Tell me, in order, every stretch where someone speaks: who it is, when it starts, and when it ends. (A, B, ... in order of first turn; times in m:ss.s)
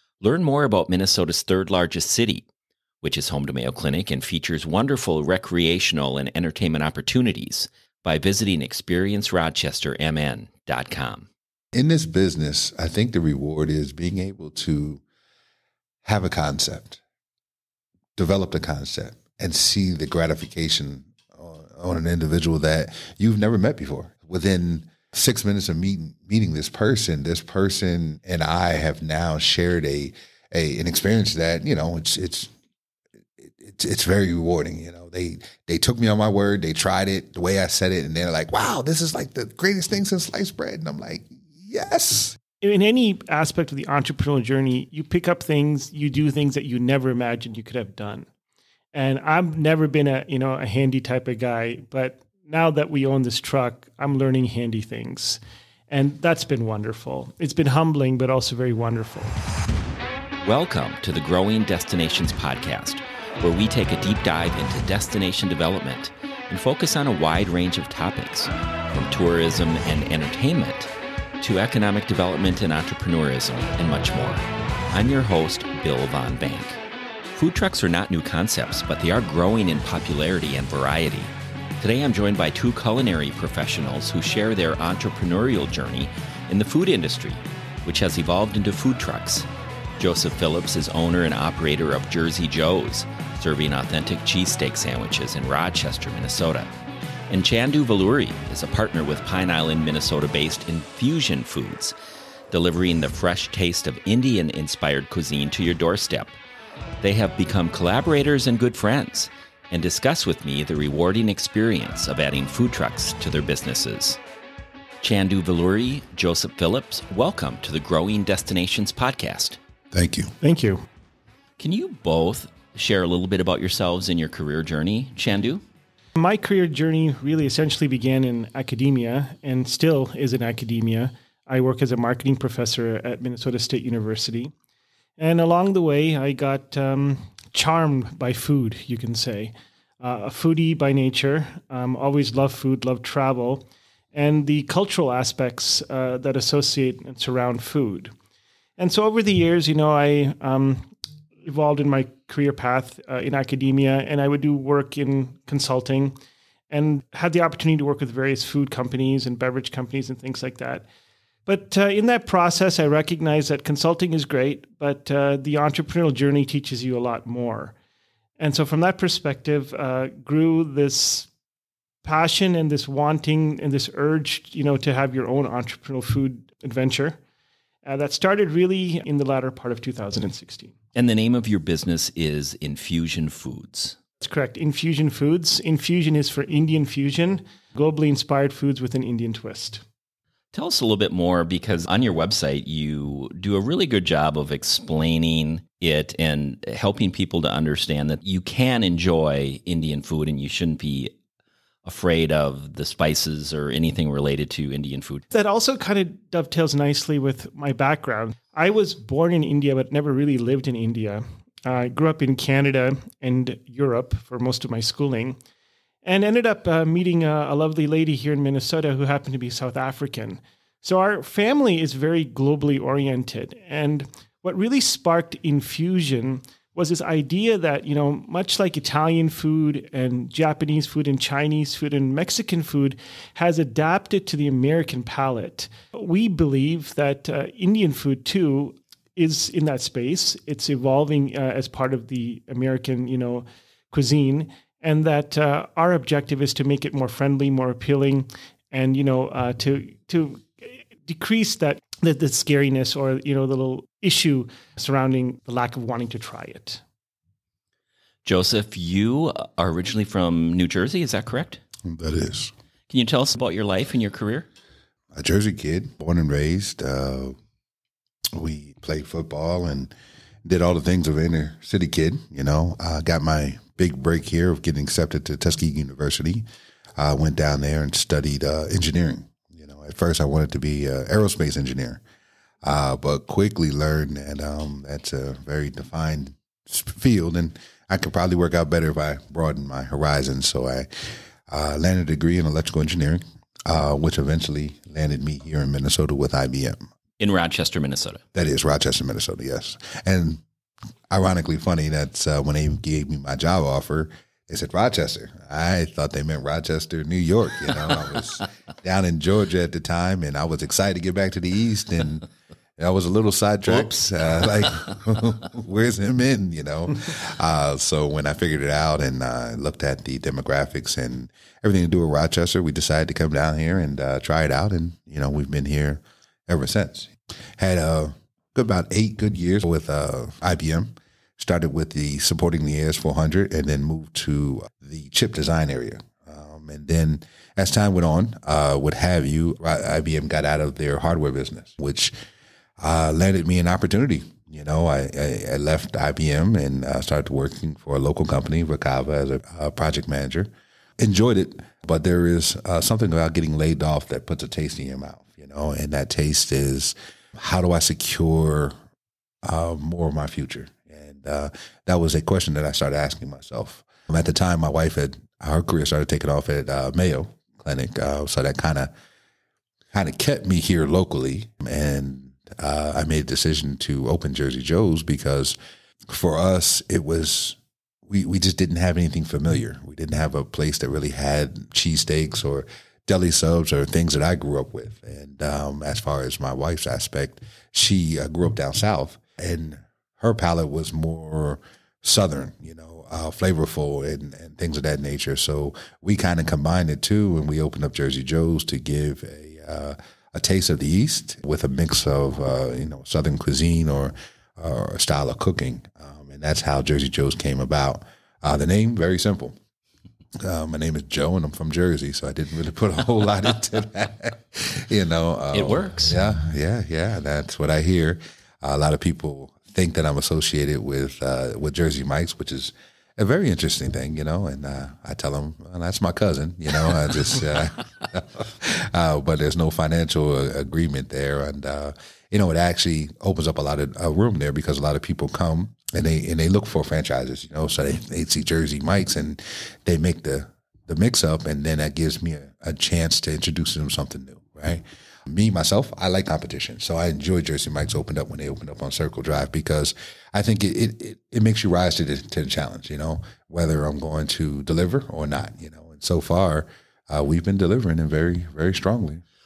0:00.2-0:02.5 A
0:03.0-0:11.3 A
0:11.7-0:15.0 B
0:16.0-0:17.0 B
0:18.2-0:32.5 B
0:33.4-0:42.4 B
0:42.6-0:48.3 C
0:48.9-0:59.4 C
1:00.4-1:10.9 A
1:11.4-1:16.8 A
1:17.3-1:29.5 A
1:30.0-1:36.7 A
1:37.3-1:41.9 A
1:42.5-1:46.4 A
1:47.0-1:54.2 A
1:55.0-1:59.6 A
1:59.9-2:00.3 B
2:00.4-2:00.8 C
2:01.6-2:05.6 A
2:06.2-2:14.5 C
2:15.2-2:28.1 C
2:28.8-2:30.9 C
2:31.4-2:36.2 C
2:36.7-2:40.8 C
2:41.5-2:47.8 C
2:48.4-2:51.3 C
2:52.0-2:57.2 C
2:57.8-3:00.7 C
3:00.9-3:04.0 A
3:04.2-3:09.8 C
3:10.5-3:21.1 A
3:21.8-3:25.2 A
3:25.3-3:35.4 C
3:36.0-4:16.8 C
4:18.2-4:21.6 A
4:21.8-4:22.5 B
4:22.9-4:24.5 A
4:25.1-4:27.4 B
4:28.4-4:29.9 B
4:30.4-4:36.4 B
4:37.0-4:42.0 B
4:42.6-4:50.9 B
4:51.5-4:56.8 B
4:57.2-4:58.2 A
4:58.3-5:00.4 B
5:01.1-5:42.1 B
5:42.8-5:58.7 B
5:59.4-6:08.9 B
6:09.9-6:15.6 B
6:16.1-6:49.6 B
6:50.4-7:39.2 B
6:55.5-6:56.2 A